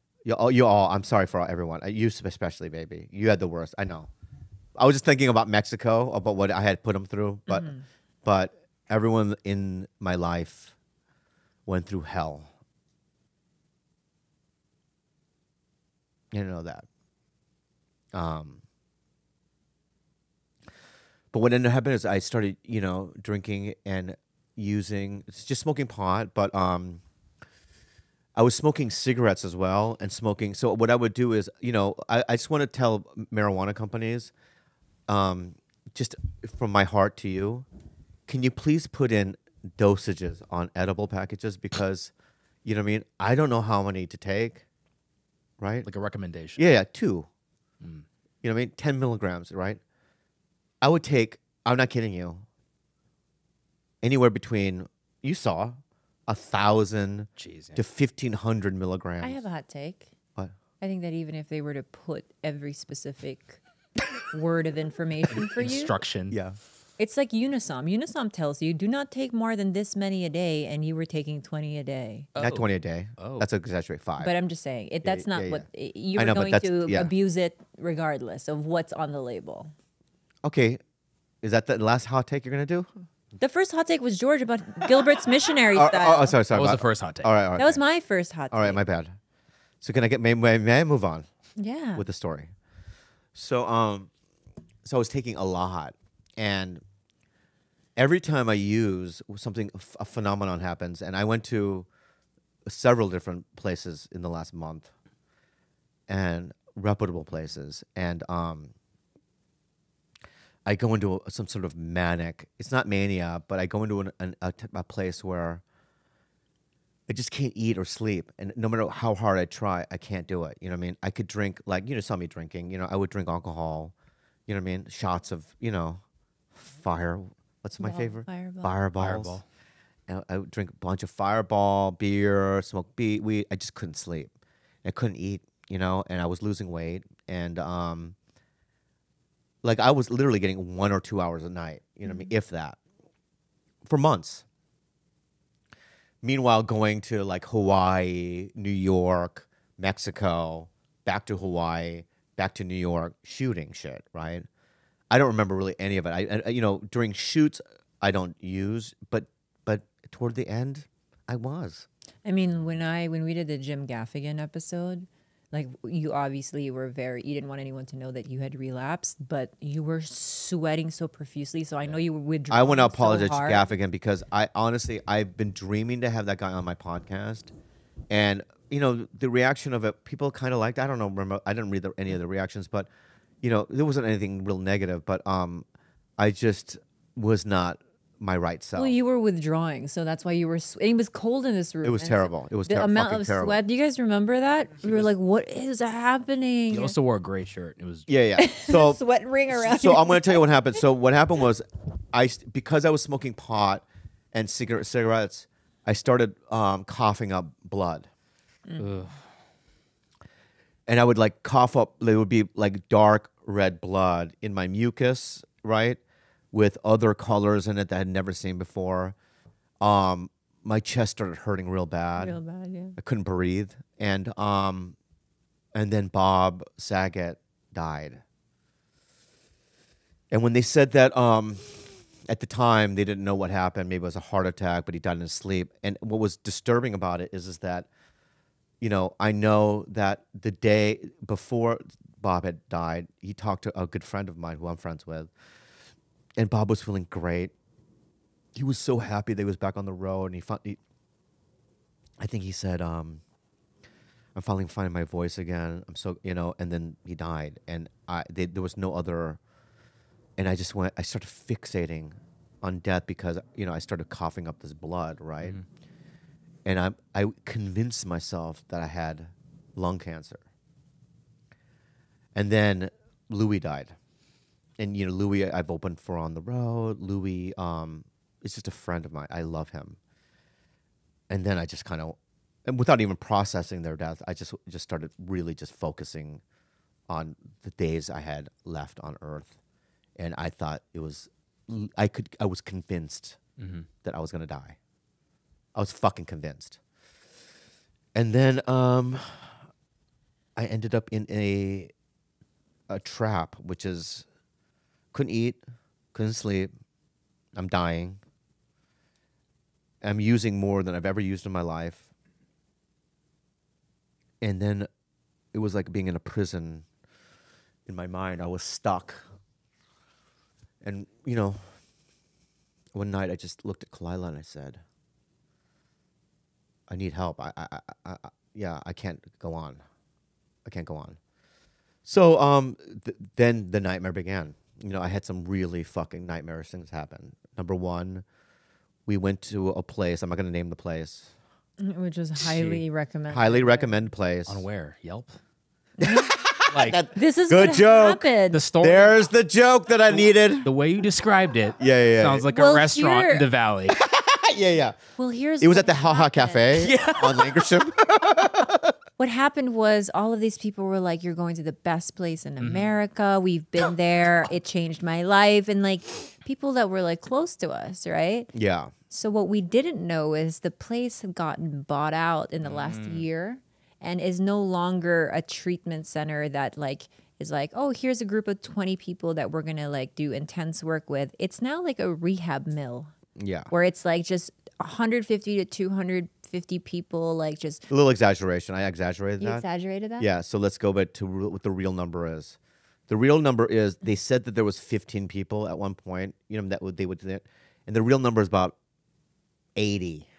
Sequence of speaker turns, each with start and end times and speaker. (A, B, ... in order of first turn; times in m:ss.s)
0:00.2-0:04.1 A
0:04.8-0:07.7 A
0:07.5-0:07.8 B
0:08.2-0:10.7 A
0:11.6-0:12.5 A
0:16.3-0:16.8 A
0:18.1-0:18.6 A
0:21.3-0:27.0 A
0:28.4-0:34.3 A
0:35.1-0:37.6 A
0:38.3-0:42.1 A
0:42.6-0:44.6 A
0:45.6-0:45.9 A
0:45.8-0:46.6 C
0:46.6-0:47.3 A
0:48.4-0:49.8 A
0:50.8-0:52.4 A
0:54.0-0:59.4 A
0:57.4-0:57.8 C
0:59.2-1:00.1 B
1:00.8-1:03.6 B
1:04.3-1:05.9 B
1:05.6-1:06.4 C
1:06.3-1:06.6 A
1:07.0-1:12.3 B
1:12.3-1:13.5 C
1:12.4-1:14.3 A
1:14.2-1:19.7 B
1:15.0-1:17.1 A
1:20.4-1:20.8 A
1:21.4-1:22.9 A
1:23.4-1:26.4 B
1:25.7-1:27.8 A
1:26.5-1:27.5 C
1:27.6-1:28.8 B
1:28.5-1:29.1 A
1:29.8-1:31.2 A
1:31.6-1:32.0 B
1:32.0-1:32.5 A
1:33.3-1:34.1 A
1:34.8-1:36.8 A
1:38.0-1:41.9 A
1:42.6-1:44.9 A
1:46.1-1:48.7 A
1:50.6-1:55.6 A
1:57.1-2:03.9 A
2:04.5-2:06.0 A
2:06.6-2:09.4 A
2:07.8-2:08.8 B
2:09.0-2:09.4 C
2:10.1-2:14.3 A
2:14.8-2:18.1 A
2:19.6-2:22.8 A
2:23.8-2:24.4 A
2:26.2-2:34.4 A
2:35.1-2:41.9 A
2:42.2-2:53.6 B
2:52.5-2:57.5 A
2:58.1-3:02.9 A
3:03.4-3:05.6 A
3:06.2-3:09.0 A
3:08.8-3:16.9 B
3:11.8-3:13.6 A
3:16.7-3:18.1 C
3:18.1-3:28.1 A
3:18.4-3:20.4 B
3:28.8-3:29.2 C
3:30.9-3:36.0 A
3:36.5-3:39.1 A
3:39.8-3:42.4 A
3:42.2-3:43.0 B
3:43.0-3:45.0 A
3:45.7-3:48.2 A
3:50.3-3:57.9 A
3:58.8-4:05.3 A
4:06.4-4:07.5 A
4:08.5-4:10.8 A
4:12.2-4:13.2 A
4:14.4-4:19.4 A
4:20.4-4:25.6 A
4:26.6-4:30.4 A
4:32.3-4:33.9 A
4:34.8-4:40.0 A
4:41.3-4:46.4 A
4:47.1-4:49.6 A
4:50.2-4:53.4 A
4:53.6-4:53.9 C
4:54.0-4:54.8 A
4:55.7-4:56.8 A
4:58.1-4:59.4 A
5:00.6-5:01.9 A
5:02.9-5:04.3 A
5:05.1-5:05.6 A
5:06.1-5:06.7 A
5:07.5-5:08.2 A
5:10.0-5:12.1 A
5:14.4-5:14.9 A
5:15.5-5:16.8 A
5:17.9-5:19.2 A
5:20.8-5:21.6 A
5:22.9-5:24.8 A
5:26.9-5:29.8 A
5:30.6-5:31.2 A
5:32.0-5:38.2 A
5:39.0-5:41.3 A
5:41.8-5:44.0 B
5:42.4-5:42.8 C
5:43.3-5:44.6 A
5:44.4-5:45.4 C
5:46.0-5:46.4 B
5:46.0-5:50.7 A
5:46.7-5:47.0 C
5:47.1-5:48.6 B
5:48.5-5:49.1 C
5:50.1-5:54.0 C
5:51.8-5:52.4 A
5:52.5-5:53.5 B
5:54.0-5:55.0 A
5:55.2-5:56.9 B
5:55.6-5:58.9 A
5:56.8-5:57.6 C
5:59.2-6:08.5 B
6:02.6-6:02.9 C
6:08.5-6:08.9 A
6:09.1-6:23.1 B
6:12.6-6:13.2 C
6:23.4-6:23.7 A
6:23.7-6:27.8 B
6:27.9-6:29.6 A
6:29.4-6:30.3 B
6:30.2-6:38.8 A
6:39.8-6:40.3 A